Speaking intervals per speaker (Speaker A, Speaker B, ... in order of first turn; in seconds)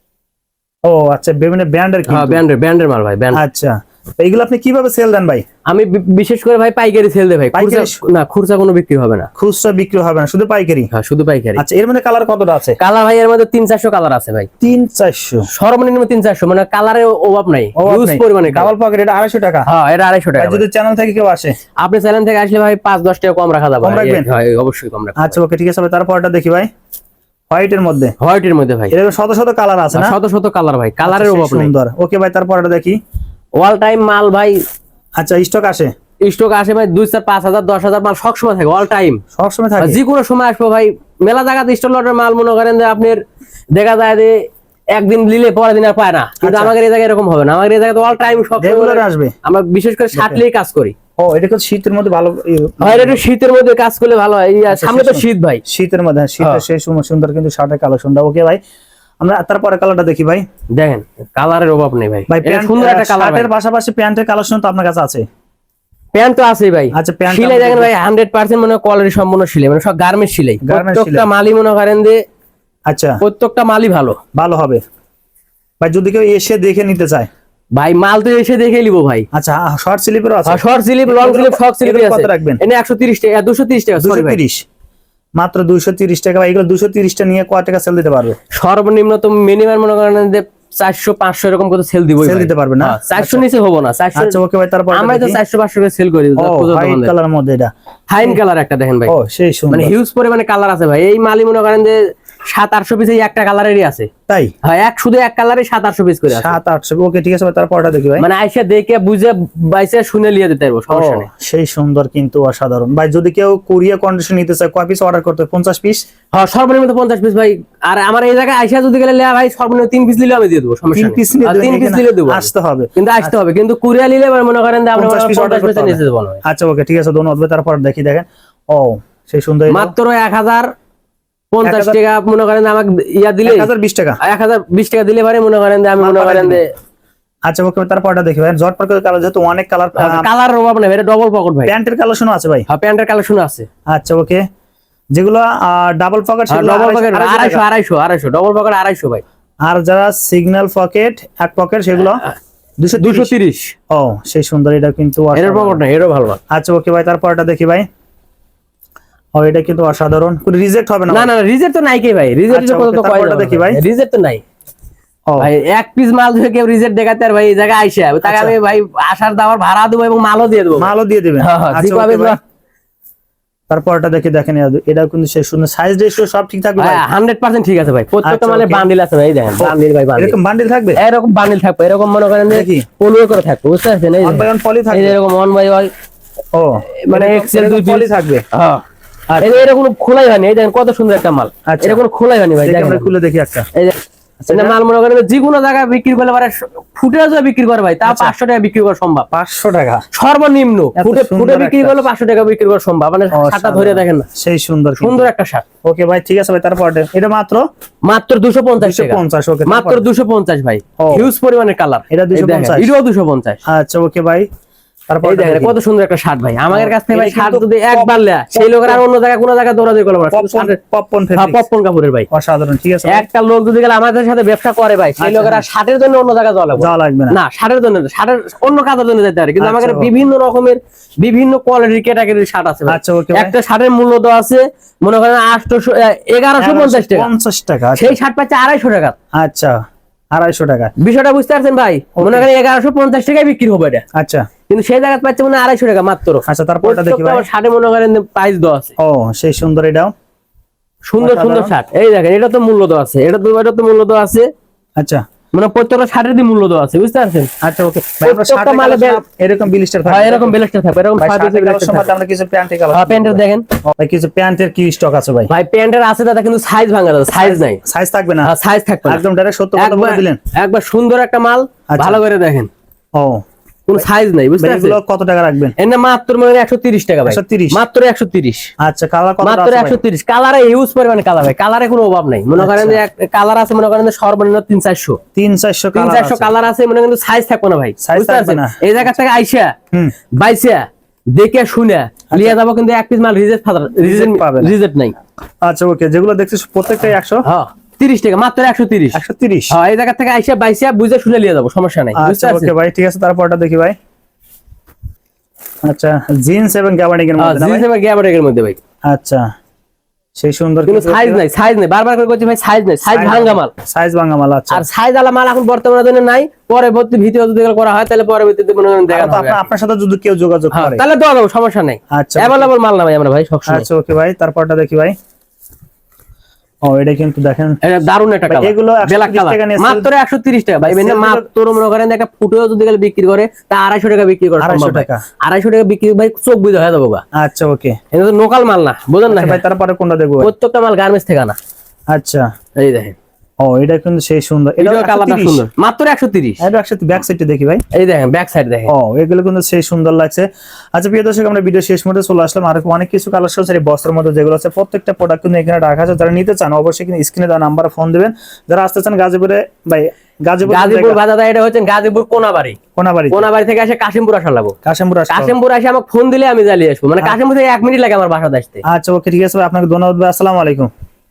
Speaker A: 0.8-2.4, 3.3-5.4, 7.5-8.0, 9.4-10.9, 11.6-12.8, 14.6-15.5, 17.8-19.7, 20.4-21.6, 23.8-24.3, 25.2-26.7, 27.5-28.1, 28.9-30.2, 31.0-33.0, 35.2-35.9, 39.3-40.0, 46.4-46.7, 48.6-49.3, 50.1-50.4, 51.2-53.2, 54.7-58.6, 59.2-60.4, 62.3-65.2, 66.9-67.9, 70.6-71.3, 72.9-73.2, 74.3-74.8, 75.8-77.3, 79.3-82.6, 84.0-84.6, 85.4-88.4, 92.2-93.4, 94.1-95.4, 96.4-97.7, 99.1-99.9, 104.3-104.5, 106.3-108.2, 110.9-116.0, 120.9-123.3, 124.9-129.9, 131.6-132.0, 133.4-134.2, 136.0-136.6, 137.5-140.3, 141.7-142.7, 143.9-144.4, 145.1-147.6, 149.6-152.2, 152.8-153.3, 153.9-155.8, 156.5-157.9, 159.3-161.3, 162.5-163.8, 168.2-168.6, 170.8-172.4, 173.7-177.0, 178.2-178.9, 179.6-181.0, 182.5-182.8, 184.2-185.2, 186.5-188.4, 189.3-189.6, 191.7-192.0, 192.6-193.7, 194.4-194.8, 198.0-198.3, 199.3-200.0, 200.9-202.1, 203.3-205.3, 205.8-207.6, 208.8-210.0, 211.0-211.3, 212.1-212.9, 213.7-214.5, 215.1-215.8, 216.7-219.0, 220.3-221.6, 222.3-223.2, 225.2-225.7, 226.8-227.4, 229.6-230.1, 232.9-233.6, 236.6-238.2, 239.3-239.8, 240.3-240.9, 242.2-242.5, 244.1-244.4, 246.5-247.5, 249.0-250.1, 251.2-251.7, 255.0-255.2, 257.6-260.6, 261.2-265.5, 267.3-268.5, 269.0-270.4, 271.9-272.2, 273.1-273.4, 274.6-275.7, 277.2-277.8, 278.8-280.0, 282.6-283.0, 285.3-286.5, 288.0-288.8, 292.3-292.6, 294.0-294.7, 295.6-297.4, 299.1-299.8, 302.1-303.9, 305.8-307.9, 309.1-309.4, 310.4-311.4, 313.1-314.8, 319.1-321.0, 322.1-322.7, 323.7-325.1, 326.8-327.8, 328.5-330.1, 330.8-331.4, 334.6-335.2, 337.3-338.0, 339.3-340.5, 342.1-342.5, 343.6-345.6, 346.6-347.8, 348.9-361.2, 362.9-363.5, 364.8-365.6, 368.9-370.9
Speaker B: 2.1-3.4, 5.7-9.3, 10.9-11.6, 12.8-14.5, 15.5-18.7, 19.7-20.6, 21.8-25.4, 28.2-28.9, 29.9-31.7, 33.6-34.6, 36.2-39.2, 39.8-50.9, 52.8-55.6, 60.7-63.5, 66.1-72.2, 73.2-74.2, 77.7-79.2, 80.5-84.4, 88.5-94.4, 94.9-97.1, 98.1-99.1, 99.7-104.1, 104.6-106.6, 108.2-111.3, 116.3-126.4, 129.7-130.7, 131.5-133.7, 134.2-136.7, 139.9-141.7, 142.7-143.7, 146.5-149.2, 153.0-153.7, 155.3-156.4, 161.1-164.4, 165.4-172.4, 176.8-180.3, 181.0-185.9, 187.0-188.8, 189.4-193.1, 193.7-199.3, 200.1-204.3, 205.0-205.6, 208.0-213.6, 215.2-220.8, 221.3-222.3, 223.1-237.3, 238.0-239.2, 241.0-244.0, 244.7-248.9, 251.1-254.5, 255.5-257.5, 258.2-259.2, 260.1-262.1, 262.9-263.6, 265.5-267.8, 268.4-269.2, 269.8-272.7, 273.9-275.0, 275.8-278.7, 279.4-285.2, 285.9-289.7, 290.4-295.1, 297.4-302.7, 307.4-308.8, 310.9-313.7, 314.7-319.6, 320.7-323.9, 327.8-337.2, 338.1-339.6, 340.4-341.6, 342.8-343.1, 344.8-346.6, 347.9-348.9, 360.6-362.8, 363.3-364.7, 365.3-368.8